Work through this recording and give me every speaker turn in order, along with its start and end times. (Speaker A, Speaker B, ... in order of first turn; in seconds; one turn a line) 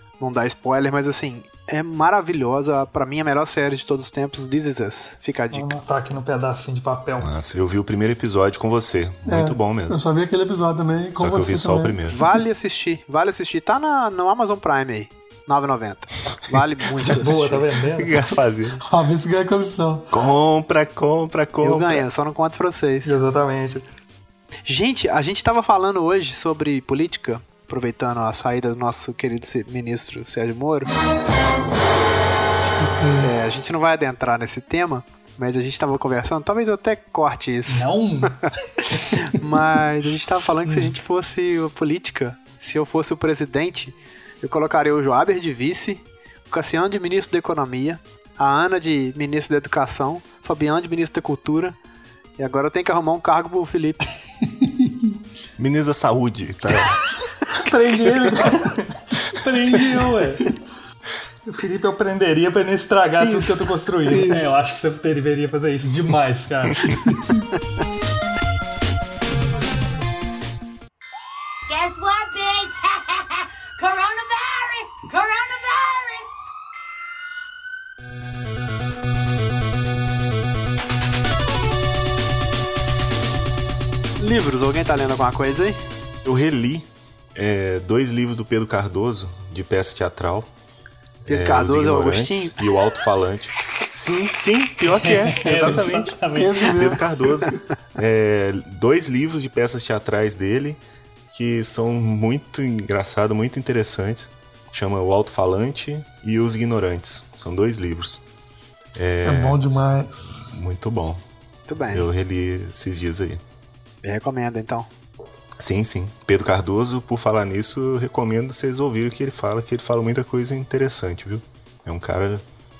Speaker A: 0.2-5.8
Speaker B: 5.5-7.3
Speaker C: 7.2-10.0
Speaker D: 9.2-12.0
Speaker C: 11.2-12.2
Speaker A: 12.1-17.6
Speaker B: 17.1-18.2
Speaker C: 17.9-18.8
Speaker D: 18.8-20.1
Speaker C: 20.1-22.0
Speaker A: 21.6-23.1
Speaker B: 23.0-23.9
Speaker A: 24.6-30.9
Speaker D: 32.6-33.3
Speaker A: 33.2-37.9
Speaker B: 37.7-39.1
Speaker A: 39.0-51.8
Speaker A: 52.4-54.0
Speaker D: 54.4-55.2
Speaker C: 55.6-57.0
Speaker B: 57.5-60.5
Speaker B: 61.5-67.0
Speaker D: 64.0-64.6
Speaker E: 71.7-76.3
Speaker A: 84.2-85.8
Speaker C: 86.2-90.5
Speaker C: 91.2-100.8
Speaker A: 91.3-92.7
Speaker B: 94.9-96.7
Speaker D: 96.3-97.1
Speaker C: 101.3-108.2
Speaker C: 108.9-109.6
Speaker D: 109.2-110.4
Speaker C: 110.3-111.2
Speaker A: 111.7-112.1
Speaker C: 111.9-113.4
Speaker A: 114.0-114.9
Speaker C: 115.6-122.4